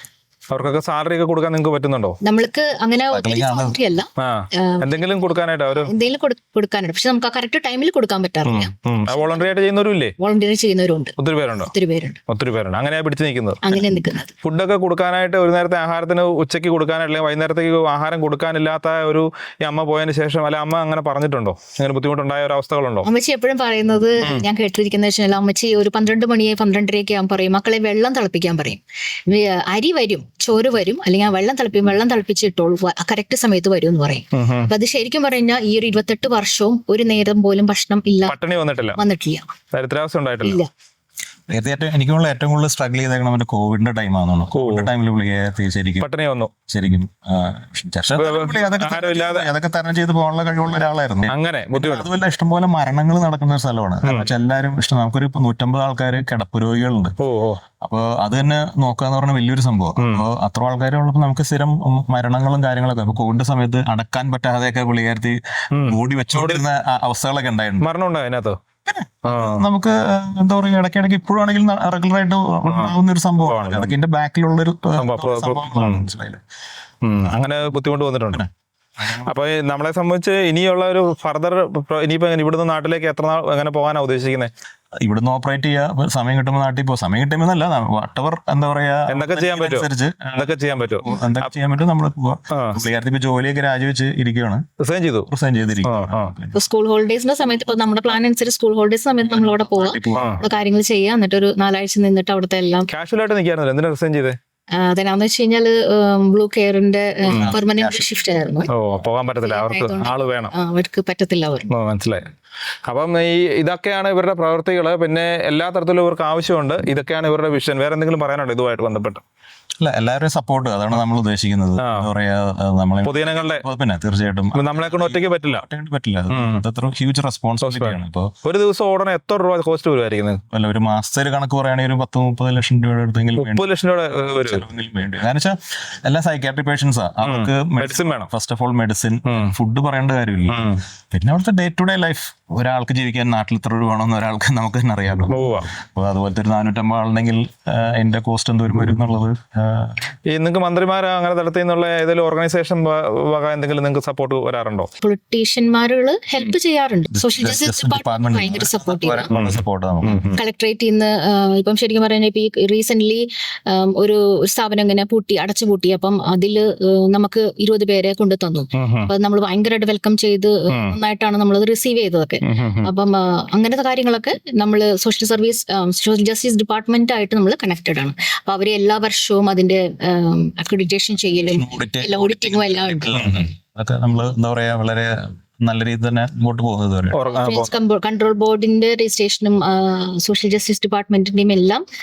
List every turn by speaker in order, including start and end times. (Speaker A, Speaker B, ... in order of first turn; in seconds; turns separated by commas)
Speaker A: 0.5-2.2, Speaker B: 2.2-5.1, Speaker C: 3.1-3.8, Speaker A: 4.2-5.9, Speaker B: 5.8-9.5, Speaker A: 8.4-10.1, Speaker B: 10.2-12.2, Speaker A: 11.2-11.7, Speaker A: 12.3-13.8, Speaker B: 13.6-14.3, Speaker A: 14.4-23.1, Speaker B: 23.0-38.4, Speaker A: 34.3-34.7, Speaker A: 38.2-39.0, Speaker B: 39.0-39.5, Speaker A: 39.7-40.6, Speaker B: 40.4-40.7, Speaker C: 41.5-46.1, Speaker A: 44.5-44.9, Speaker A: 46.0-46.5, Speaker C: 46.7-57.1, Speaker A: 48.1-49.5, Speaker A: 51.3-52.1, Speaker A: 54.0-54.3, Speaker A: 57.2-57.6, Speaker C: 57.8-67.9, Speaker A: 60.0-60.2, Speaker A: 65.7-66.6, Speaker A: 67.8-68.6, Speaker C: 68.8-76.4, Speaker A: 69.2-69.6, Speaker A: 72.7-73.9, Speaker A: 75.0-76.1, Speaker A: 77.0-78.4, Speaker C: 78.3-79.3, Speaker A: 79.2-84.5, Speaker C: 85.0-94.6, Speaker A: 89.1-91.5, Speaker A: 92.5-92.8, Speaker A: 94.8-95.3, Speaker C: 95.3-96.5, Speaker A: 95.8-96.3, Speaker B: 96.5-102.9, Speaker C: 99.4-100.3, Speaker A: 100.2-100.4, Speaker A: 102.9-104.4, Speaker B: 104.7-108.7, Speaker A: 107.3-107.5, Speaker C: 107.3-108.1, Speaker A: 108.7-110.5, Speaker B: 109.4-111.7, Speaker A: 111.7-112.2, Speaker A: 112.9-119.2, Speaker C: 119.8-128.3, Speaker A: 121.8-122.1, Speaker A: 123.0-123.6, Speaker A: 124.5-125.6, Speaker A: 126.3-126.6, Speaker A: 127.6-130.4, Speaker C: 130.5-133.6, Speaker A: 133.4-134.7, Speaker C: 134.4-150.0, Speaker A: 137.2-138.3, Speaker A: 139.3-139.5, Speaker A: 140.5-140.8, Speaker A: 145.3-145.7, Speaker A: 150.3-154.9, Speaker B: 155.0-159.3, Speaker C: 157.1-160.3, Speaker A: 159.3-160.4, Speaker B: 160.3-183.4, Speaker A: 168.7-169.1, Speaker A: 170.7-170.9, Speaker A: 172.4-172.9, Speaker C: 181.5-187.2, Speaker A: 183.1-183.4, Speaker A: 187.1-187.7, Speaker B: 187.3-191.8